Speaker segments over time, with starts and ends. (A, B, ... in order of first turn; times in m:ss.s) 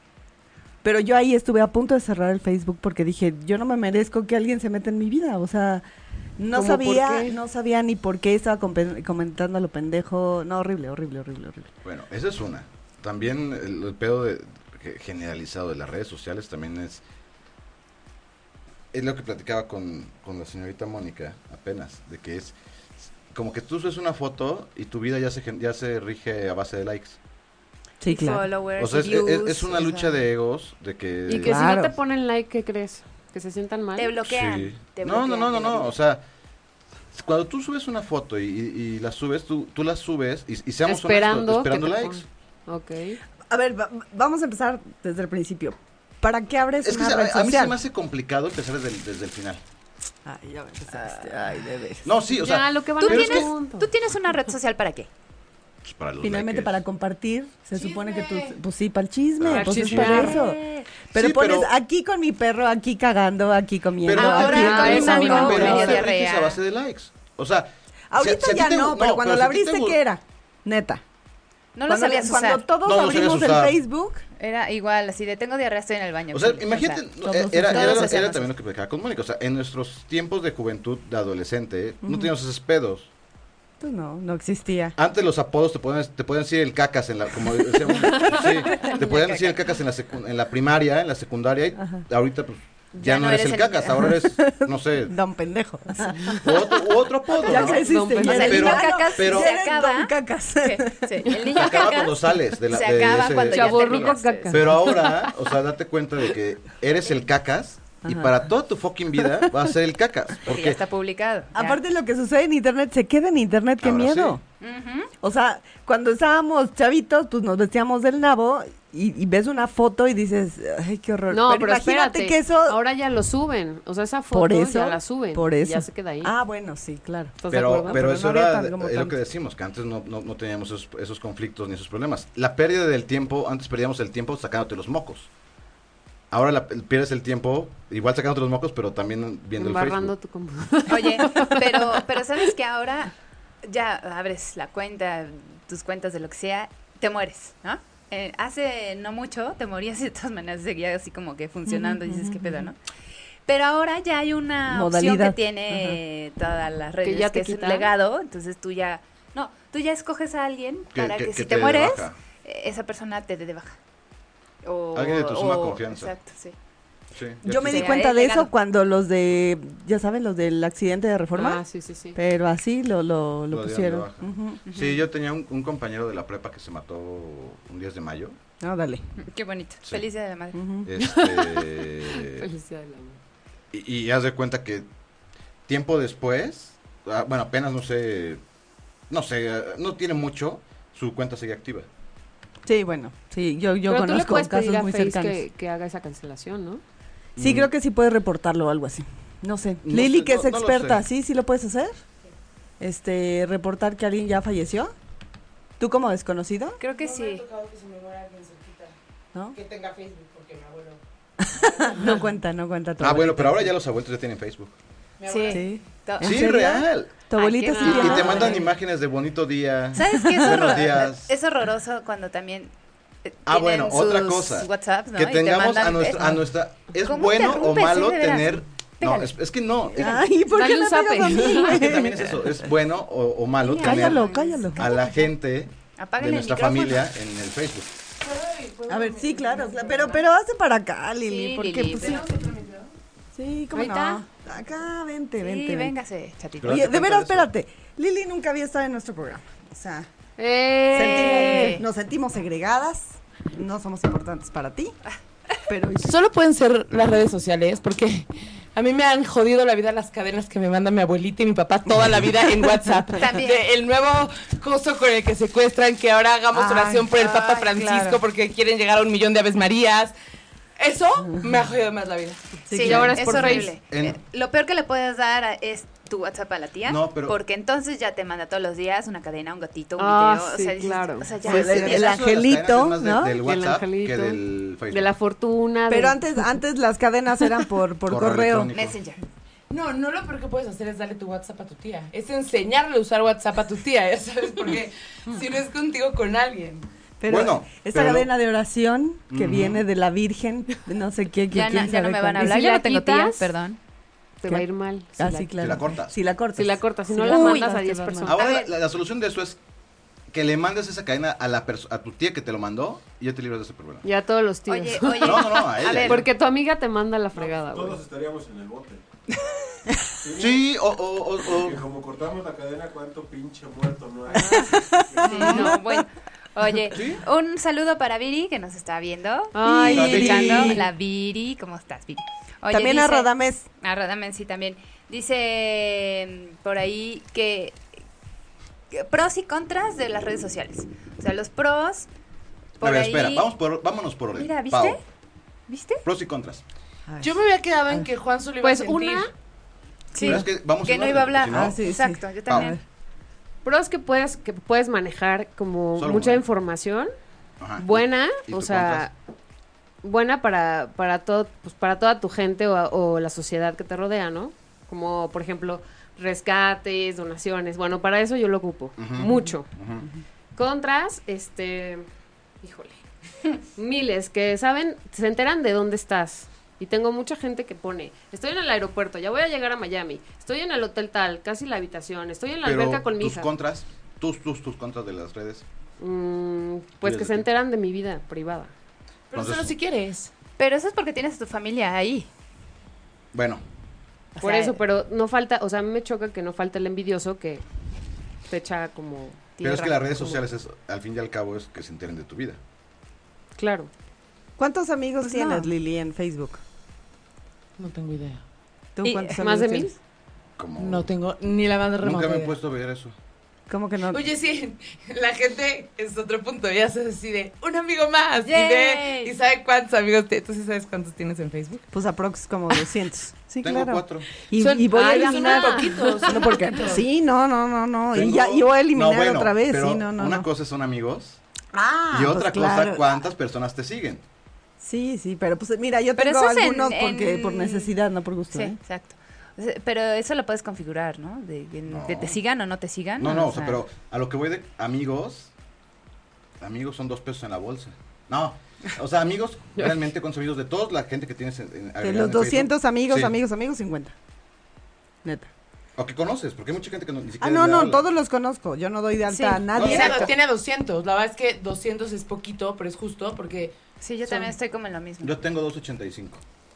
0:00.8-0:05.8 A
0:06.4-0:11.7 A
0:06.5-0:07.4 B
0:11.8-0:17.0 C
0:18.9-0:22.6 C
0:23.3-0:27.2 C
0:28.0-0:28.5 A
0:28.1-0:30.2 D
0:28.8-0:31.7 C
0:31.3-0:34.1 B
0:31.4-0:31.9 A
0:34.0-0:36.0 D
0:34.2-0:36.2 C
0:37.1-0:42.3 C
0:40.8-0:43.2 B
0:43.5-0:47.8 A
0:46.8-0:49.6 C
0:50.2-0:52.1 A
0:52.0-0:53.5 C
0:52.3-0:53.9 B
0:53.0-0:55.1 D
0:55.8-0:56.8 C
0:56.2-1:00.6 A
0:57.7-0:58.6 E
0:59.4-1:00.4 C
0:59.5-1:00.5 B
1:00.0-1:00.9 D
1:01.1-1:06.0 A
1:01.1-1:01.7 C
1:04.0-1:10.0 C
1:04.2-1:06.6 D
1:04.3-1:06.0 B
1:08.1-1:11.0 A
1:11.8-1:12.7 D
1:11.9-1:14.2 A
1:12.8-1:13.8 C
1:14.4-1:18.5 D
1:16.3-1:23.1 C
1:17.2-1:18.2 A
1:22.0-1:22.3 A
1:23.8-1:25.0 A
1:25.0-1:35.2 C
1:28.2-1:29.7 D
1:31.8-1:32.0 A
1:33.0-1:34.2 D
1:34.1-1:36.7 A
1:36.4-1:39.6 C
1:37.3-1:41.5 A
1:37.6-1:38.7 B
1:38.2-1:44.6 D
1:41.5-1:50.8 C
1:43.4-1:44.8 B
1:48.0-1:48.4 A
1:49.2-1:49.5 A
1:50.4-1:51.8 D
1:51.5-1:54.4 A
1:53.8-1:54.4 C
1:54.6-1:55.1 D
1:55.2-2:02.8 A
2:01.3-2:06.4 B
2:04.3-2:09.2 A
2:07.4-2:08.0 B
2:07.5-2:15.3 C
2:16.3-2:20.2 C
2:19.6-2:22.0 B
2:20.9-2:32.8 D
2:31.7-2:32.7 A
2:33.5-2:43.8 D
2:34.7-2:36.0 A
2:37.0-2:37.9 B
2:40.9-2:42.2 C
2:44.6-2:46.6 D
2:44.9-2:46.1 C
2:47.2-2:48.0 C
2:47.4-2:51.6 A
2:47.6-2:48.5 D
2:51.3-2:52.2 B
2:52.2-2:54.6 A
2:53.5-2:58.4 C
2:54.7-2:55.1 D
2:58.6-2:59.1 A
2:59.2-3:00.7 D
3:00.5-3:00.9 A
3:00.8-3:02.5 C
3:01.0-3:03.2 B
3:03.7-3:04.9 C
3:05.7-3:08.4 C
3:09.1-3:11.9 C
3:12.7-3:15.4 A
3:13.9-3:16.8 B
3:17.4-3:17.7 C
3:17.4-3:22.0 A
3:19.8-3:21.0 C
3:22.8-3:24.9 A
3:25.8-3:26.8 A
3:26.8-3:27.4 D
3:26.8-3:29.0 E
3:29.5-3:31.0 E
3:31.4-3:33.7 A
3:31.5-3:32.3 E
3:33.0-3:34.7 C
3:35.2-3:35.8 E
3:35.3-3:36.8 D
3:35.5-3:38.6 A
3:36.2-3:37.3 C
3:37.3-3:38.7 D
3:37.8-3:41.3 C
3:40.0-3:42.7 D
3:40.3-3:40.7 A
3:43.2-3:46.4 D
3:43.5-3:50.2 C
3:47.0-3:49.4 D
3:49.9-3:52.5 A
3:50.4-3:51.9 B
3:51.6-3:57.9 C
3:53.6-3:55.2 D
3:53.8-3:55.0 A
3:56.0-3:57.1 D
3:58.2-4:00.2 E
3:58.9-4:02.3 A
4:01.3-4:02.2 D
4:02.0-4:02.9 E
4:03.3-4:05.9 A
4:03.7-4:04.2 D
4:05.4-4:07.0 D
4:06.6-4:07.5 C
4:06.6-4:10.1 A
4:10.4-4:11.8 B
4:10.9-4:15.0 A
4:10.9-4:11.8 D
4:15.7-4:16.1 A
4:16.0-4:30.1 E
4:23.2-4:23.6 D
4:26.5-4:27.1 A
4:27.2-4:28.2 D
4:30.8-4:32.4 E
4:32.7-4:33.5 A
4:32.7-4:42.2 D
4:32.8-4:33.8 B
4:32.9-4:34.2 C
4:36.9-4:37.4 C
4:40.0-4:41.4 B
4:41.4-4:43.5 A
4:41.4-4:45.1 C
4:43.4-4:46.2 B
4:45.9-4:48.7 A
4:48.1-4:49.0 C
4:48.7-4:49.2 D
4:49.7-4:56.9 E
4:57.2-5:02.8 A
4:57.3-4:58.3 C
4:59.3-4:59.8 C
5:01.5-5:03.8 D
5:02.5-5:03.5 B
5:04.4-5:05.5 B
5:05.2-5:08.4 A
5:05.6-5:06.2 C
5:06.6-5:08.5 B
5:07.2-5:07.7 D
5:08.3-5:09.6 C
5:08.3-5:08.7 D
5:10.3-5:14.0 C
5:14.0-5:18.0 B
5:14.7-5:16.3 D
5:15.2-5:16.3 C
5:17.3-5:19.0 F
5:20.2-5:20.8 F
5:20.4-5:21.8 C
5:21.4-5:25.5 F
5:24.4-5:26.0 A
5:25.2-5:37.8 D
5:26.9-5:27.2 C
5:29.5-5:30.7 B
5:29.6-5:30.9 A
5:29.8-5:30.8 C
5:32.7-5:33.7 A
5:38.9-5:42.1 D
5:42.8-5:43.5 D
5:42.8-5:45.0 C
5:44.3-5:45.0 D
5:45.7-5:46.0 D
5:46.0-5:46.6 C
5:47.1-5:47.4 A
5:47.2-5:49.3 E
5:48.6-5:49.3 B
5:50.1-5:52.8 D
5:50.2-5:51.8 C
5:51.5-5:52.8 A
5:52.5-5:52.7 C
5:53.6-5:57.1 B
5:56.0-5:56.4 C
5:57.6-5:59.1 C
5:57.8-5:59.1 B
6:00.0-6:09.7 B
6:09.0-6:10.1 C
6:10.6-6:12.1 B
6:12.6-6:13.0 B
6:13.8-6:23.5 B
6:22.6-6:25.6 C
6:26.0-6:28.7 B
6:27.0-6:27.5 C
6:29.3-6:30.3 E
6:29.3-6:29.7 C
6:30.6-6:32.3 D
6:33.3-6:33.6 C
6:34.4-6:34.8 D
6:34.4-6:37.6 B
6:38.5-6:39.6 B
6:39.6-6:40.4 D
6:39.6-6:42.6 C
6:43.6-6:43.9 B
6:44.6-6:46.6 A
6:45.2-6:45.7 D
6:47.8-6:48.4 E
6:49.0-6:49.9 A
6:49.0-6:49.4 D
6:49.4-6:50.0 B
6:50.6-6:51.1 C
6:50.8-6:52.6 E
6:52.0-6:53.2 C
6:53.7-6:54.2 A
6:54.1-7:01.8 E
6:58.4-6:59.3 D
7:01.9-7:10.5 A
7:03.6-7:04.3 C
7:04.6-7:06.7 B
7:04.9-7:07.0 E
7:08.1-7:11.4 C
7:11.7-7:13.2 A
7:12.1-7:14.2 C
7:14.8-7:18.8 A
7:16.2-7:17.9 D
7:18.5-7:23.8 D
7:21.9-7:22.4 C
7:23.2-7:25.5 C
7:26.6-7:33.3 C
7:32.0-7:34.1 A
7:35.2-7:35.5 A
7:36.0-7:38.0 C
7:37.4-7:40.2 A
7:39.3-7:40.3 D
7:39.7-7:40.3 C
7:39.8-7:43.8 E
7:44.0-7:45.4 D
7:44.3-7:44.5 E
7:45.2-7:46.4 C